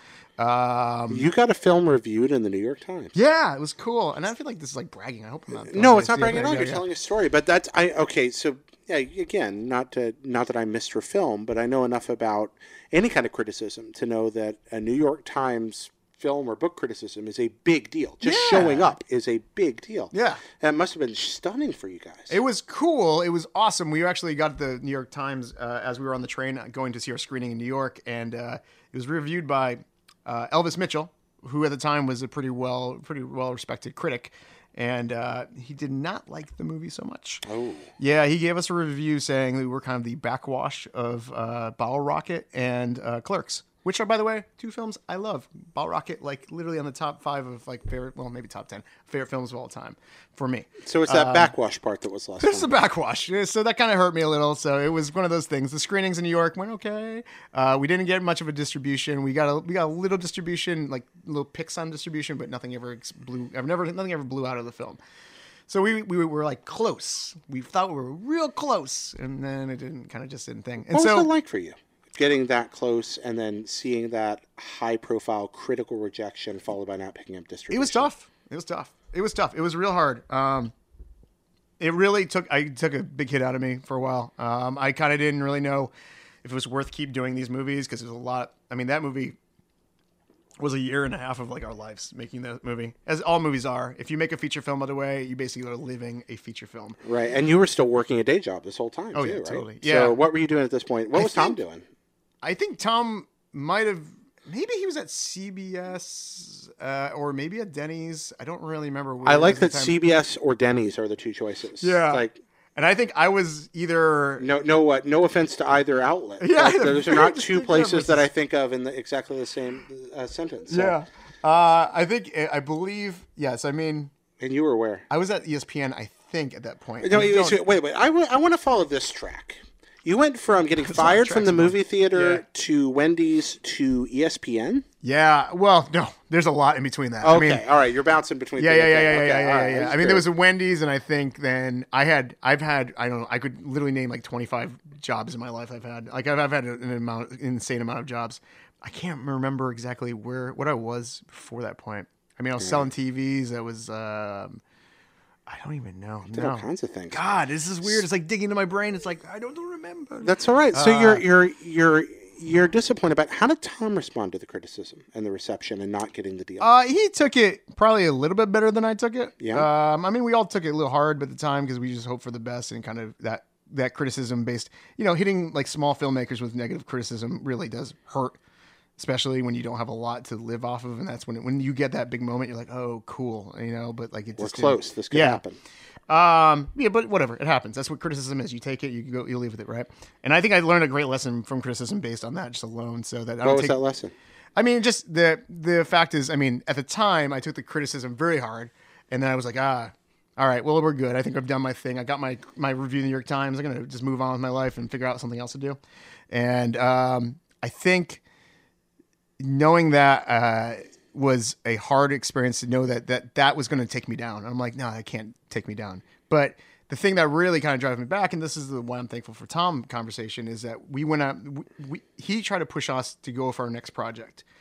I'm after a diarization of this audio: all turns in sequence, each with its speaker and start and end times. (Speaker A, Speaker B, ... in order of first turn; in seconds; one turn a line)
Speaker A: 0.4-1.3
Speaker B: 1.1-3.1
Speaker A: 3.1-6.8
Speaker B: 5.7-22.4
Speaker A: 18.2-18.9
Speaker A: 20.1-20.4
Speaker A: 22.3-37.4
Speaker B: 37.5-37.9
Speaker A: 38.0-51.5
Speaker B: 50.8-52.7
Speaker A: 52.4-65.0
Speaker A: 65.7-71.3
Speaker B: 70.9-78.1
Speaker A: 77.7-80.7
Speaker A: 81.8-85.9
Speaker A: 86.4-89.4
Speaker A: 90.6-97.0
Speaker B: 97.0-101.8
Speaker A: 99.1-100.2
Speaker A: 101.2-101.6
Speaker A: 102.4-110.0
Speaker B: 109.2-112.4
Speaker A: 111.8-114.4
Speaker B: 114.4-121.0
Speaker A: 116.4-118.3
Speaker A: 120.7-124.1
Speaker B: 124.4-125.0
Speaker A: 125.1-127.6
Speaker B: 127.0-134.8
Speaker A: 130.8-132.4
Speaker A: 135.0-137.6
Speaker B: 137.2-140.2
Speaker A: 138.6-154.6
Speaker A: 155.5-161.2
Speaker B: 156.3-157.2
Speaker B: 160.2-166.7
Speaker A: 166.6-178.4
Speaker B: 169.4-169.7
Speaker A: 179.0-185.4
Speaker B: 184.4-185.6
Speaker A: 186.1-193.8
Speaker B: 193.4-194.1
Speaker A: 194.6-205.8
Speaker A: 206.3-208.2
Speaker A: 209.4-224.4